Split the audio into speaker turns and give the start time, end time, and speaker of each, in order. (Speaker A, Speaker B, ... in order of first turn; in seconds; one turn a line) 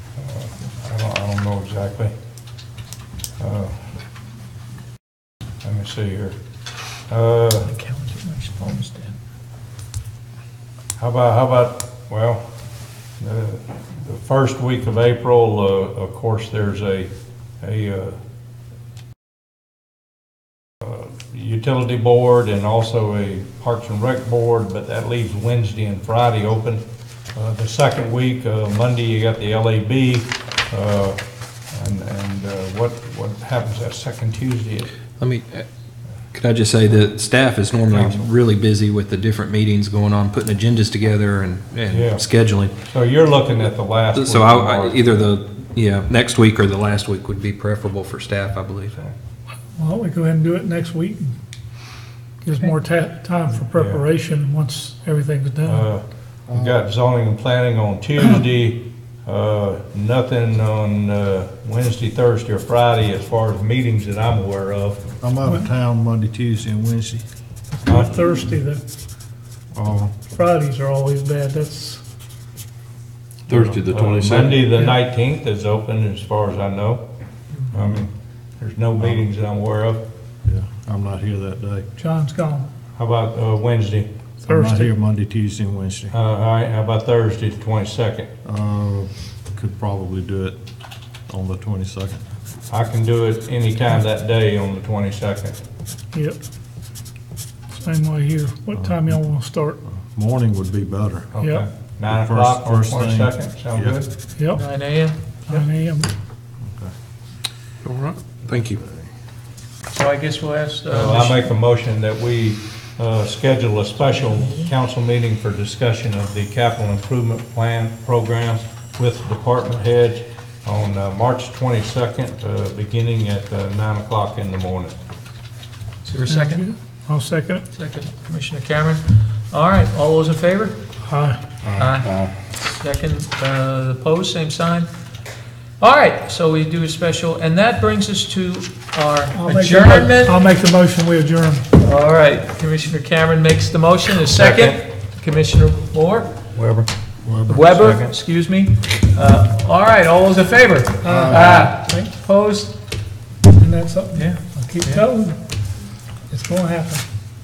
Speaker A: 0.2-2.1
Speaker A: 3.4-3.9
Speaker A: 5.6-6.4
Speaker A: 7.1-7.7
Speaker B: 7.7-9.2
Speaker A: 11.0-12.4
Speaker A: 13.2-18.2
Speaker A: 20.8-26.8
Speaker A: 27.4-31.2
Speaker A: 31.7-34.9
Speaker C: 35.2-35.7
Speaker C: 36.3-42.7
Speaker A: 37.9-38.2
Speaker A: 41.9-42.2
Speaker A: 42.9-45.3
Speaker C: 44.1-49.0
Speaker D: 49.8-51.4
Speaker D: 52.4-55.9
Speaker A: 53.7-54.0
Speaker A: 55.7-65.0
Speaker E: 56.5-56.8
Speaker E: 65.2-67.2
Speaker D: 67.8-68.8
Speaker E: 69.7-70.2
Speaker D: 70.3-72.0
Speaker E: 73.5-73.8
Speaker C: 73.5-74.5
Speaker A: 73.9-77.0
Speaker A: 77.7-80.0
Speaker E: 80.5-81.8
Speaker D: 82.0-82.7
Speaker A: 83.0-84.1
Speaker E: 84.4-86.1
Speaker D: 84.5-84.9
Speaker A: 86.1-88.3
Speaker E: 88.4-90.6
Speaker E: 91.3-92.2
Speaker A: 92.7-95.6
Speaker D: 97.8-99.8
Speaker E: 98.8-99.3
Speaker E: 99.9-101.3
Speaker A: 101.3-104.1
Speaker D: 101.4-101.7
Speaker E: 102.1-104.0
Speaker D: 104.4-104.6
Speaker B: 104.5-105.7
Speaker D: 105.5-106.1
Speaker E: 106.7-106.9
Speaker C: 107.9-108.8
Speaker B: 109.9-111.5
Speaker A: 110.9-125.0
Speaker B: 126.0-126.7
Speaker D: 126.3-127.7
Speaker B: 127.7-130.8
Speaker D: 131.0-131.4
Speaker B: 131.8-132.1
Speaker B: 132.6-134.9
Speaker B: 135.8-140.4
Speaker D: 139.3-141.7
Speaker B: 141.8-146.3
Speaker A: 144.2-144.8
Speaker A: 146.6-146.9
Speaker E: 147.2-147.7
Speaker B: 147.5-152.8
Speaker A: 147.6-148.1
Speaker E: 151.0-151.7
Speaker D: 151.0-152.1
Speaker D: 153.6-155.4
Speaker B: 154.2-155.1
Speaker D: 156.3-157.1